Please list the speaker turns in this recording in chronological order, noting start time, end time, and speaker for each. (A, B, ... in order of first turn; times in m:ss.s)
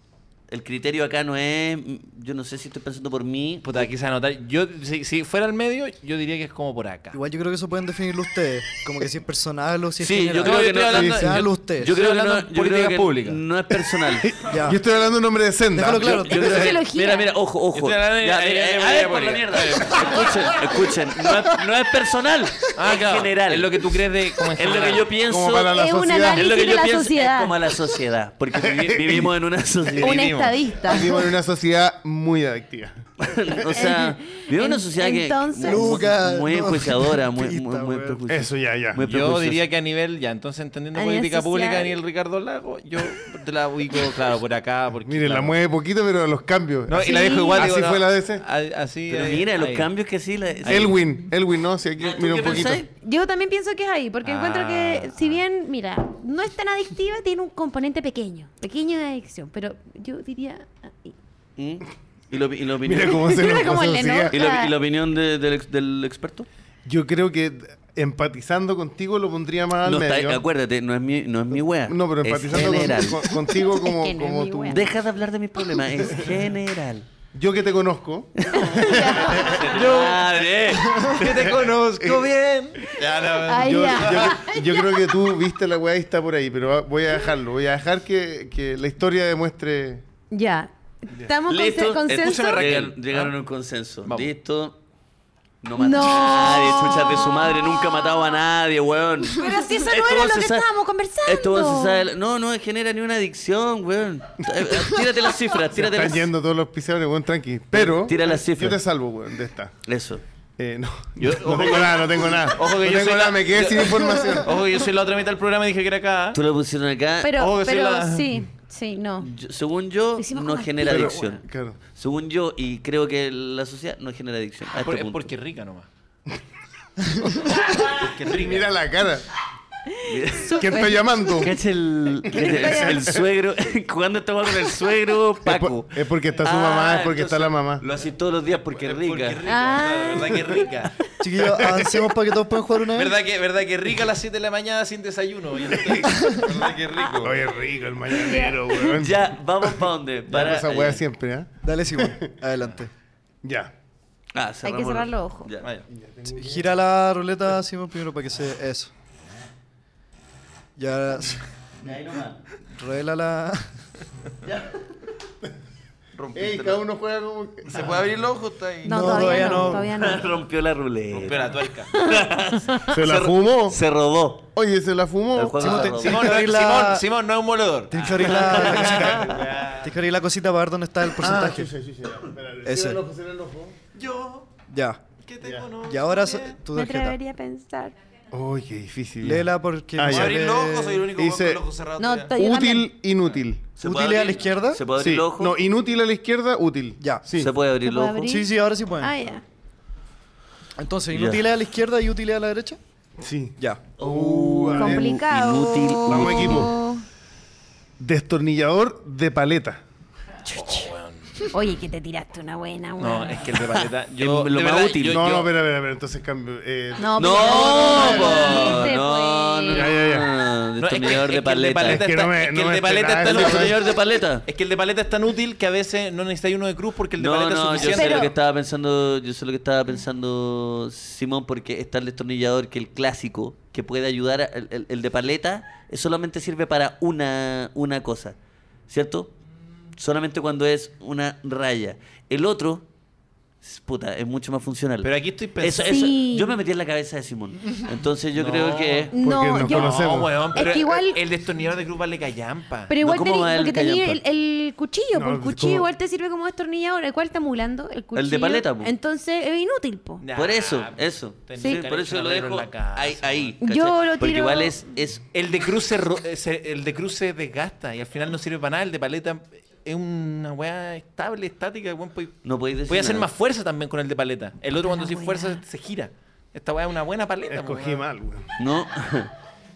0:00.5-0:03.9 A
0:03.6-0:07.2 B
0:07.1-0:11.9 C
0:10.0-0:14.4 A
0:10.4-0:13.4 B
0:10.9-0:11.2 D
0:14.2-0:16.1 D
0:14.5-0:14.8 C
0:15.7-0:16.6 C
0:15.9-0:23.9 A
0:16.3-0:17.3 E
0:16.4-0:16.6 B
0:17.7-0:20.7 B
0:22.7-0:25.1 B
0:24.5-0:25.8 A
0:25.2-0:26.5 D
0:25.7-0:27.6 E
0:26.3-0:30.5 A
0:28.6-0:29.3 D
0:30.0-0:30.6 B
0:30.0-0:31.2 E
0:30.9-0:33.1 D
0:33.2-0:39.6 A
0:33.7-0:36.0 E
0:35.6-0:38.2 C
0:38.3-0:39.1 D
0:39.0-0:45.6 B
0:41.0-0:42.0 E
0:45.1-0:48.4 D
0:46.9-0:49.9 B
0:47.0-0:47.7 E
0:49.1-0:51.0 A
0:50.6-0:50.9 B
0:50.7-0:52.8 D
0:52.0-0:52.9 A
0:53.0-1:01.2 E
0:54.2-0:55.4 B
1:01.6-1:03.3 A
1:02.8-1:04.4 D
1:03.1-1:04.7 E
1:04.3-1:06.5 A
1:06.8-1:10.4 D
1:09.8-1:13.3 A
1:11.8-1:14.9 D
1:13.5-1:14.9 E
1:14.7-1:17.1 A
1:17.3-1:19.7 D
1:18.4-1:21.6 A
1:18.5-1:19.7 E
1:19.4-1:24.4 B
1:21.4-1:22.3 D
1:23.4-1:25.2 E
1:23.5-1:30.0 D
1:30.3-1:32.7 E
1:31.5-1:34.8 A
1:32.1-1:33.4 B
1:34.0-1:34.3 B
1:35.6-1:40.7 A
1:35.8-1:38.4 E
1:39.3-1:42.1 E
1:41.3-1:46.3 A
1:45.7-1:49.7 D
1:47.7-1:48.8 A
1:49.8-1:50.2 A
1:50.6-1:54.6 D
1:51.2-1:56.4 B
1:56.3-1:57.4 A
1:57.2-1:59.3 E
1:57.4-1:58.4 B
1:59.2-2:05.3 A
2:00.2-2:01.4 E
2:00.8-2:01.8 D
2:04.8-2:05.9 B
2:07.7-2:08.7 B
2:08.3-2:09.3 D
2:09.9-2:11.4 E
2:10.0-2:10.7 A
2:10.6-2:11.6 D
2:11.4-2:19.4 A
2:12.3-2:13.2 E
2:12.4-2:13.2 D
2:15.4-2:17.8 D
2:18.6-2:21.0 B
2:19.5-2:20.7 E
2:21.2-2:23.2 C
2:21.6-2:22.0 D
2:22.9-2:27.5 B
2:26.1-2:26.4 C
2:27.2-2:32.4 D
2:28.1-2:28.9 E
2:28.9-2:31.0 A
2:31.6-2:32.9 C
2:33.4-2:33.7 D
2:34.3-2:35.7 A
2:34.6-2:35.5 E
2:35.6-2:35.9 B
2:35.9-2:36.7 D
2:36.3-2:38.9 C
2:40.8-2:41.4 C
2:41.8-2:42.4 A
2:42.8-2:43.7 C
2:44.4-2:44.8 A
2:46.2-2:46.8 B
2:46.3-2:46.7 A
2:46.3-2:48.0 D
2:47.7-2:49.5 B
2:48.8-2:50.4 E
2:48.9-2:49.9 C
2:49.6-2:54.5 A
2:51.1-2:51.9 B
2:51.9-2:52.8 E
2:52.9-2:53.8 D
2:54.5-2:56.0 D
2:55.3-2:56.4 A
2:55.6-2:57.0 C
2:56.0-2:59.9 B
2:57.9-3:01.7 C
2:58.5-2:59.2 A
3:01.2-3:03.8 D
3:02.6-3:03.0 C
3:04.0-3:04.5 B
3:04.7-3:05.0 C
3:05.2-3:06.6 B
3:05.8-3:07.2 C
3:06.7-3:08.0 E
3:08.3-3:10.5 D
3:09.2-3:11.0 C
3:10.1-3:12.3 B
3:11.2-3:11.6 D
3:12.0-3:12.9 E
3:12.4-3:13.6 D
3:13.8-3:15.6 A
3:13.8-3:14.8 C
3:15.0-3:17.5 D
3:17.0-3:17.3 C
3:17.3-3:18.3 A
3:17.8-3:19.4 E
3:18.2-3:19.2 C
3:20.8-3:22.8 C
3:21.1-3:21.5 A
3:23.2-3:25.2 D
3:24.0-3:26.7 A
3:24.8-3:27.0 E
3:26.0-3:26.8 D
3:28.0-3:29.8 D
3:30.5-3:30.9 E
3:30.5-3:31.5 B
3:31.5-3:33.6 E
3:33.0-3:35.5 B
3:34.2-3:35.2 A
3:35.1-3:38.9 D
3:37.0-3:40.0 E
3:37.2-3:42.0 A
3:39.7-3:40.3 D
3:40.8-3:48.3 B
3:41.8-3:43.8 D
3:43.2-3:44.4 A
3:47.2-3:58.4 A
3:47.8-3:48.3 E
3:58.9-3:59.4 A
4:00.0-4:02.9 A
4:03.6-4:09.2 A
4:05.0-4:06.1 B
4:05.9-4:06.6 E
4:08.3-4:09.1 B
4:09.1-4:10.0 E
4:09.2-4:10.5 D
4:09.6-4:12.9 B
4:10.5-4:11.2 E
4:12.9-4:20.2 E
4:13.0-4:14.2 A
4:15.1-4:15.9 D
4:18.2-4:18.9 A
4:20.2-4:23.5 B
4:20.4-4:25.2 A
4:21.6-4:21.8 E
4:23.6-4:24.8 E
4:25.3-4:38.0 B
4:32.4-4:33.3 A
4:34.8-4:35.6 E
4:37.5-4:38.5 D
4:38.6-4:39.3 A